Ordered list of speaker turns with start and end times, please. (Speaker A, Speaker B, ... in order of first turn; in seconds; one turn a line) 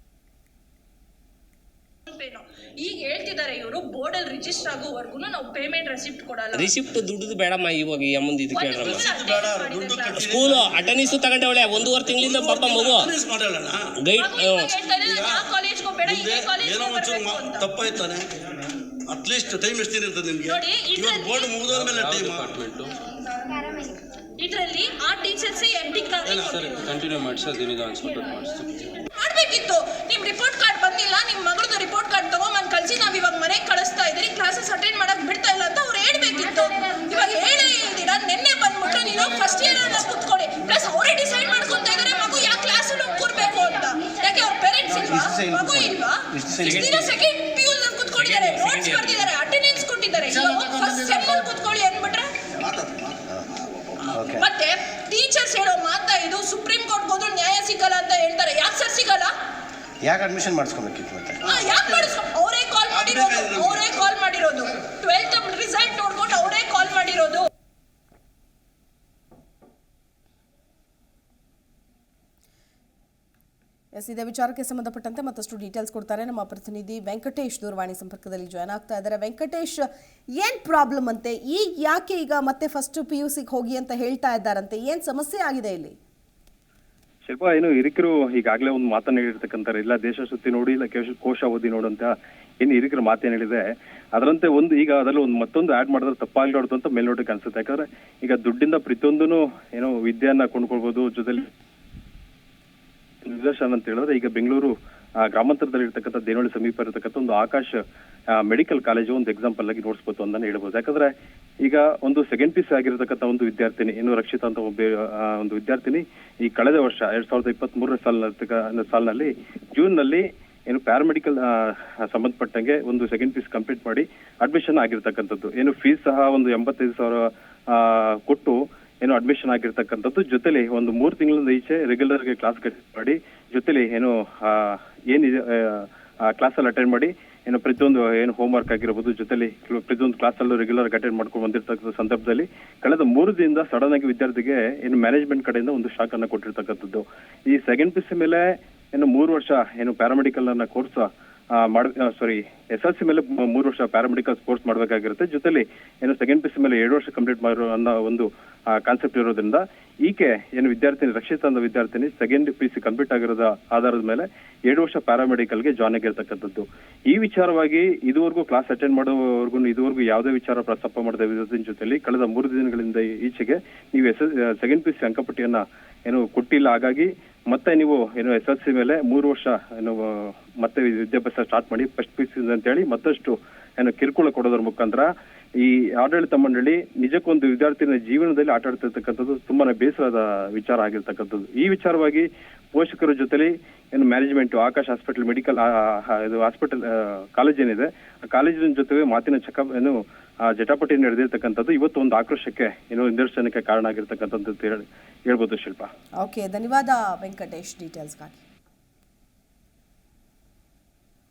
Speaker A: 2.1-6.7
Speaker B: 6.5-9.1
Speaker A: 8.5-10.3
Speaker C: 8.8-10.9
Speaker B: 10.1-13.1
Speaker C: 11.8-13.9
Speaker B: 14.0-14.7
Speaker A: 14.2-17.8
Speaker C: 15.0-15.5
Speaker C: 16.1-18.3
Speaker C: 19.1-22.6
Speaker A: 20.4-21.6
Speaker D: 21.7-22.9
Speaker A: 24.4-26.8
Speaker C: 26.3-26.5
Speaker D: 26.5-29.0
Speaker A: 29.2-52.3
Speaker E: 44.9-46.9
Speaker B: 46.6-47.1
Speaker B: 48.2-49.3
Speaker C: 52.8-53.1
Speaker E: 54.1-54.5
Speaker A: 54.2-59.3
Speaker E: 60.0-61.4
Speaker A: 61.4-67.5
Speaker C: 62.9-63.8
Speaker F: 73.9-86.0
Speaker G: 87.3-101.5
Speaker G: 103.2-104.7
Speaker G: 105.3-107.8
Speaker G: 108.3-111.1
Speaker G: 111.6-185.1
Speaker G: 185.6-205.9
Speaker F: 206.2-208.4